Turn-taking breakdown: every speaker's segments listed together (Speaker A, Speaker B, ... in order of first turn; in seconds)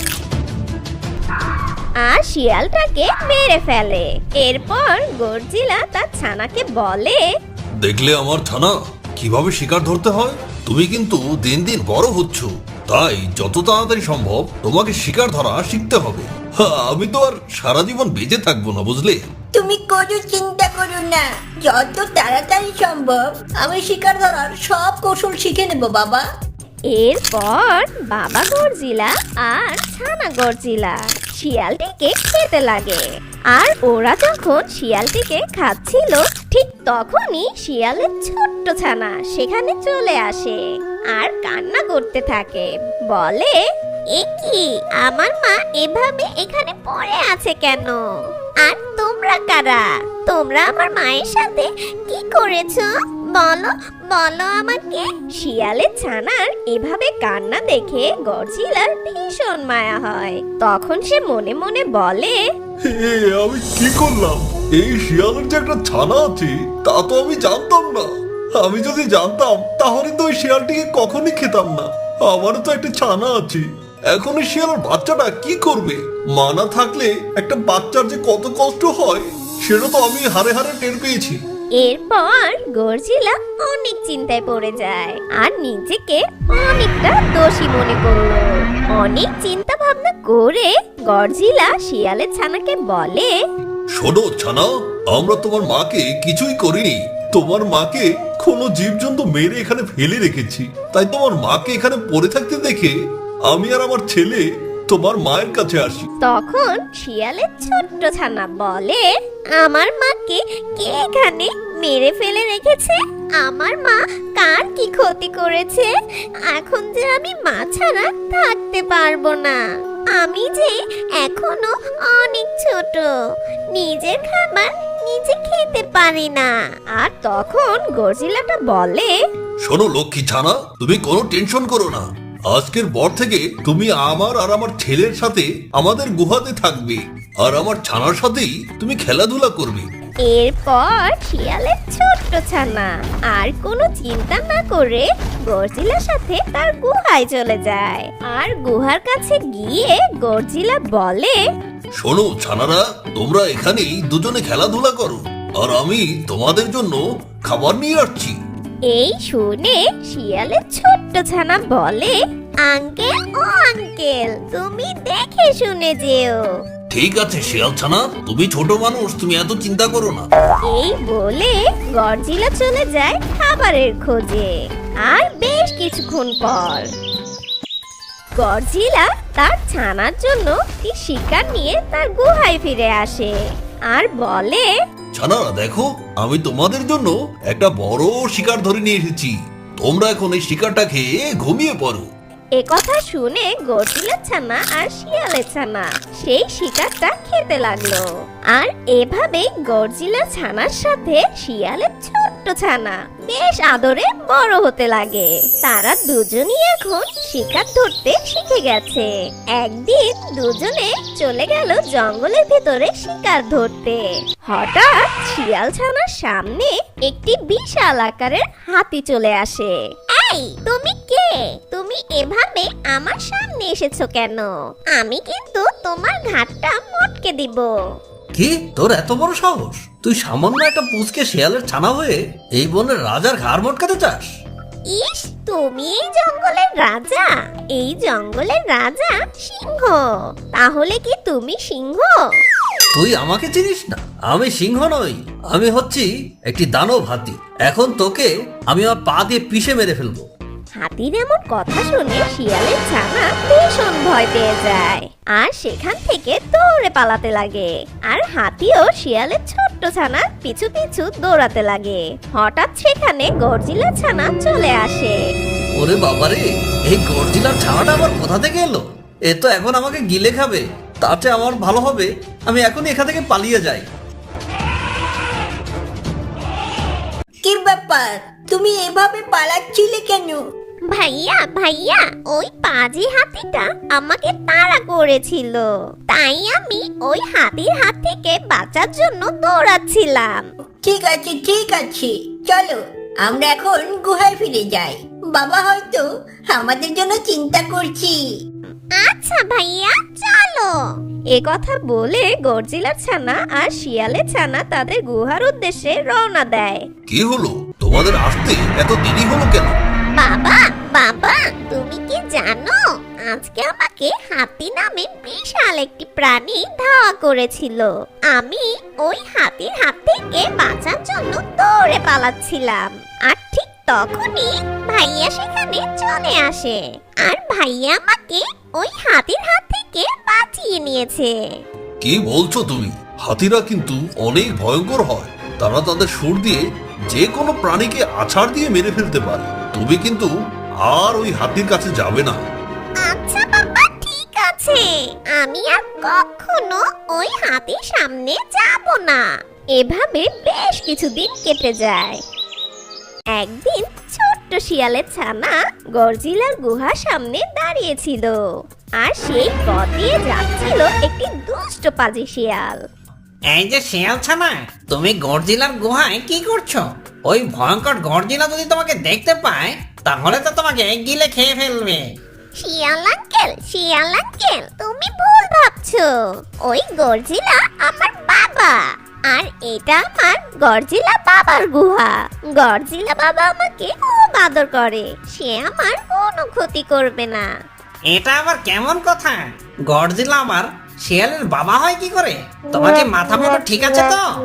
Speaker A: 2.0-7.2, 26.9-40.6, 41.1-43.5, 44.1-48.0, 48.6-62.4, 81.8-93.3, 106.2-109.0, 109.6-115.9, 116.5-119.6, 120.1-123.1, 123.7-129.1, 140.2-151.4, 158.9-166.4, 170.7-174.5, 175.0-176.9, 178.4-183.3, 183.9-184.7, 192.6-227.7, 234.9-242.2, 250.8-265.2, 280.9-290.4, 298.9-300.8, 301.3-306.9, 310.1-331.4, 343.0-349.2, 349.8-352.2, 353.4-358.4, 359.0-362.8, 372.6-376.1, 376.6-387.5
Speaker B: 7.8-19.2, 62.8-81.4, 94.0-102.9, 103.5-106.1, 129.6-139.9, 152.0-158.3, 166.9-170.2, 185.1-192.1, 228.4-234.2, 243.1-250.1, 265.9-266.4, 267.4-268.8, 269.4-270.5, 271.1-272.0, 272.6-273.8, 307.1-309.8, 332.0-340.3, 340.9-342.4
Speaker C: 19.5-26.2, 277.4-280.4, 290.8-298.2
Speaker D: 233.6-233.8, 243.0-243.2, 246.6-247.6, 248.8-250.1, 265.9-266.4, 266.9-268.7, 269.7-270.6, 271.1-273.8
Speaker E: 363.5-372.0, 388.1-394.2